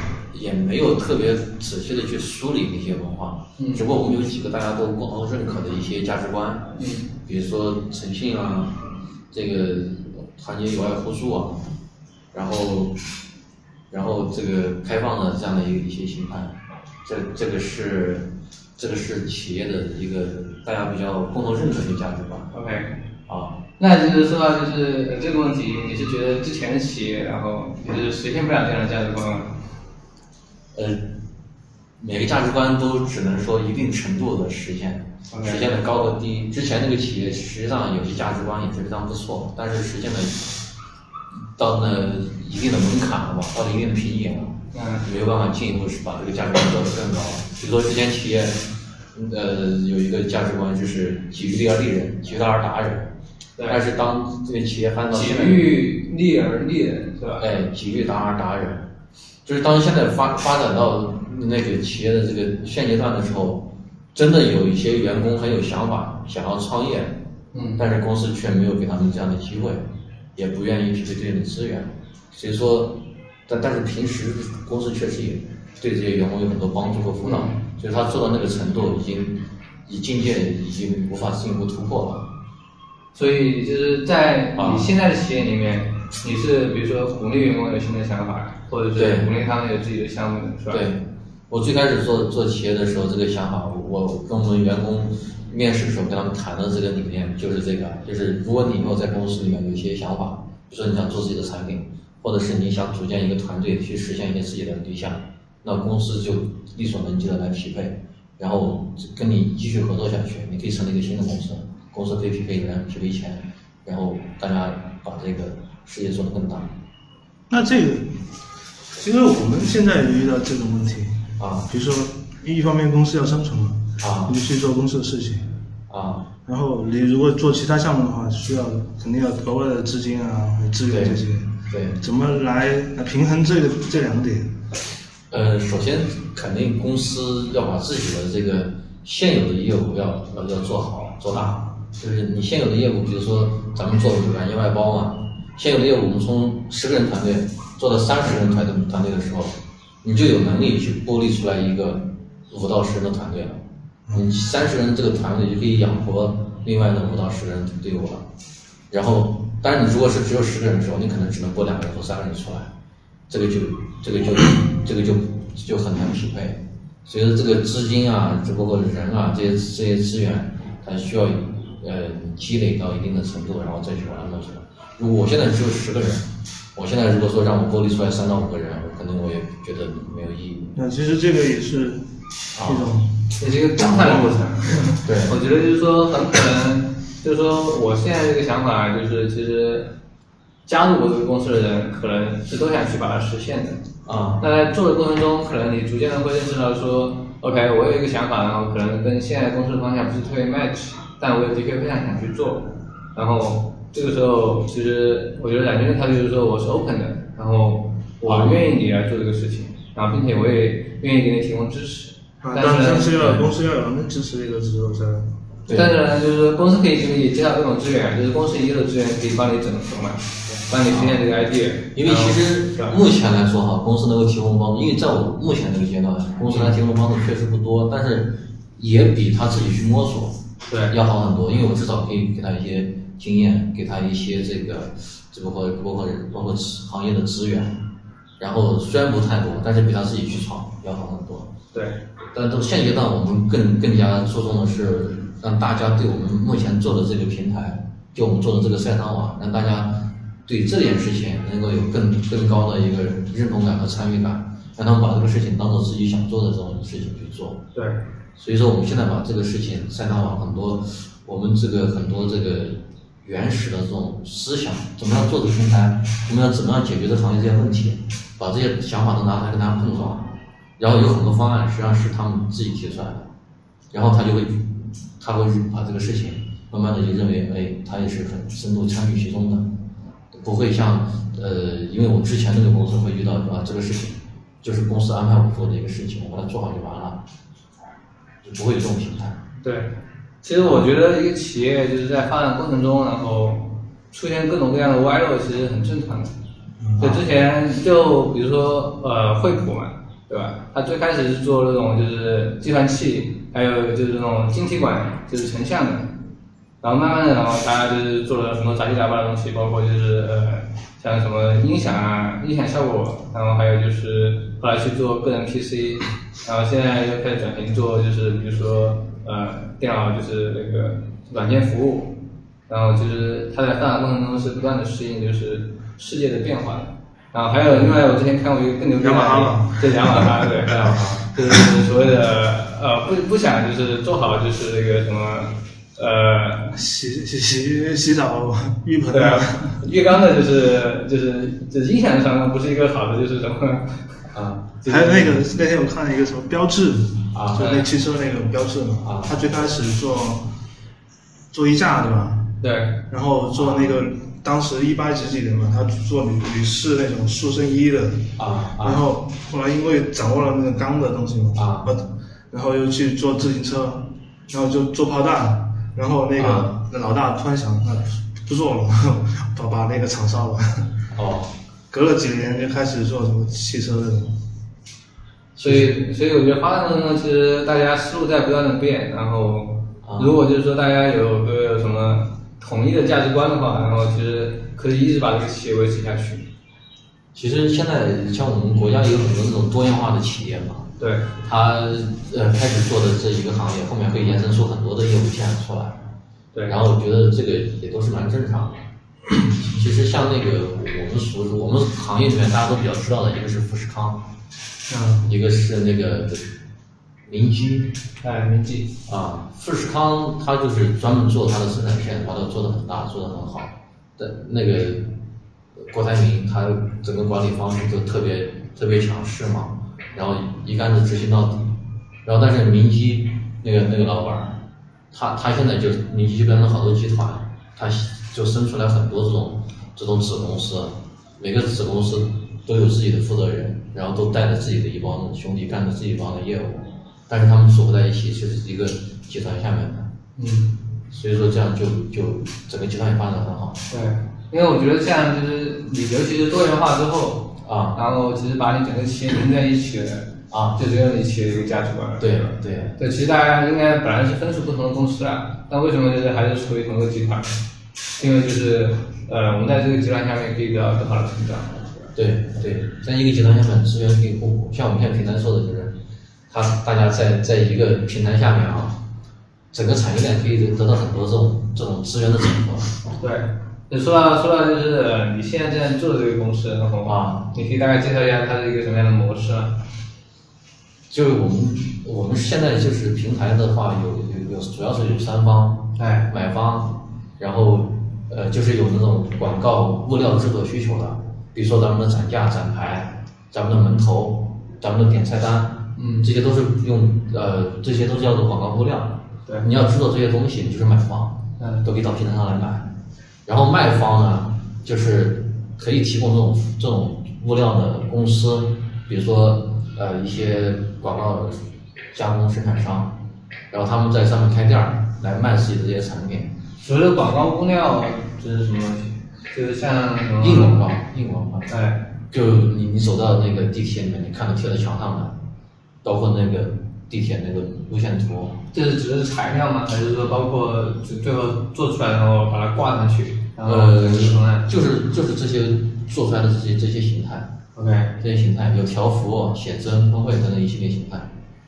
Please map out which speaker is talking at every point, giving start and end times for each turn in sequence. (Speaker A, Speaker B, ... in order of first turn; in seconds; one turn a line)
Speaker A: 0.3-8.8
Speaker B: 3.6-3.8
Speaker B: 6.8-7.1
Speaker A: 9.3-11.6
Speaker A: 12.3-13.0
Speaker A: 13.9-22.5
Speaker B: 22.5-22.9
Speaker A: 23.3-23.6
Speaker B: 23.8-29.5
Speaker A: 30.7-31.1
Speaker A: 32.0-40.5
Speaker B: 35.3-35.8
Speaker A: 41.5-53.1
Speaker B: 44.7-45.0
Speaker B: 53.6-53.8
Speaker A: 53.6-55.8
Speaker B: 55.1-57.5
Speaker A: 57.4-58.9
Speaker A: 59.4-67.2
Speaker B: 67.5-67.8
Speaker A: 67.8-82.3
Speaker B: 77.2-77.5
Speaker B: 83.1-90.8
Speaker A: 84.5-84.9
Speaker A: 89.0-89.3
Speaker A: 90.7-116.7
Speaker C: 117.5-118.1
Speaker C: 119.0-125.5
Speaker A: 121.4-121.7
Speaker A: 124.0-124.4
Speaker A: 125.9-126.3
Speaker C: 126.5-134.5
Speaker A: 130.9-132.0
Speaker A: 135.3-153.6
Speaker C: 141.3-141.6
Speaker A: 154.1-158.2
Speaker A: 158.9-162.7
Speaker A: 163.3-180.7
Speaker C: 180.7-182.0
Speaker A: 182.5-182.9
Speaker C: 182.5-183.1
Speaker B: 183.4-189.9
Speaker C: 183.8-185.0
Speaker A: 185.0-185.4
Speaker B: 190.7-193.8
Speaker A: 194.0-194.4
Speaker B: 194.4-213.4
Speaker A: 208.2-208.6
Speaker C: 212.4-215.3
Speaker A: 215.7-215.9
Speaker B: 215.7-223.0
Speaker A: 220.8-221.2
Speaker A: 221.9-230.4
Speaker B: 230.7-230.9
Speaker A: 230.9-237.8
Speaker A: 238.4-241.5
Speaker A: 242.3-257.6
Speaker B: 257.7-258.0
Speaker A: 258.4-273.3
Speaker A: 273.9-279.7
Speaker A: 280.3-287.2
Speaker A: 288.4-289.4
Speaker B: 289.6-289.9
Speaker B: 290.4-296.3
Speaker A: 290.6-290.9
Speaker C: 296.8-297.2
Speaker B: 297.0-306.1
Speaker B: 306.8-322.1
Speaker B: 322.7-336.7
Speaker C: 329.0-330.5
Speaker C: 336.7-339.8
Speaker B: 339.1-344.1
Speaker A: 344.3-344.8
Speaker B: 344.8-345.4
Speaker C: 344.9-350.4
Speaker A: 347.3-347.7
Speaker B: 347.6-347.8
Speaker A: 349.0-349.4
Speaker C: 351.5-352.5
Speaker B: 352.6-353.0
Speaker C: 353.1-370.9
Speaker A: 353.5-354.0
Speaker A: 358.4-359.1
Speaker A: 361.5-361.9
Speaker A: 366.4-366.7
Speaker A: 371.1-371.5
Speaker C: 371.9-374.3
Speaker A: 375.6-375.9
Speaker B: 375.6-386.4
Speaker A: 380.0-380.4
Speaker A: 387.3-390.9
Speaker B: 391.0-391.3
Speaker A: 391.4-396.0
Speaker A: 396.7-398.8
Speaker A: 399.5-404.2
Speaker B: 404.9-405.2
Speaker A: 405.2-406.6
Speaker A: 407.2-407.9
Speaker B: 408.2-408.9
Speaker A: 409.1-415.1
Speaker A: 415.8-421.7
Speaker A: 422.2-424.6
Speaker A: 425.1-440.1
Speaker B: 440.4-440.7
Speaker A: 441.1-443.8
Speaker B: 443.9-452.4
Speaker A: 447.6-448.0
Speaker A: 450.5-450.8
Speaker A: 452.2-452.9
Speaker B: 453.0-457.6
Speaker B: 458.2-462.1
Speaker A: 462.1-466.0
Speaker A: 466.5-469.0
Speaker A: 469.7-472.9
Speaker B: 473.2-479.8
Speaker A: 477.0-477.5
Speaker A: 481.1-502.9
Speaker B: 485.9-486.3
Speaker B: 495.9-496.3
Speaker B: 501.6-501.9
Speaker A: 503.4-513.2
Speaker A: 513.7-516.5
Speaker B: 516.8-520.8
Speaker A: 520.4-521.7
Speaker B: 521.7-522.0
Speaker A: 522.3-525.4
Speaker A: 526.0-528.6
Speaker B: 528.7-534.7
Speaker A: 533.6-537.5
Speaker B: 537.7-538.1
Speaker A: 538.2-541.3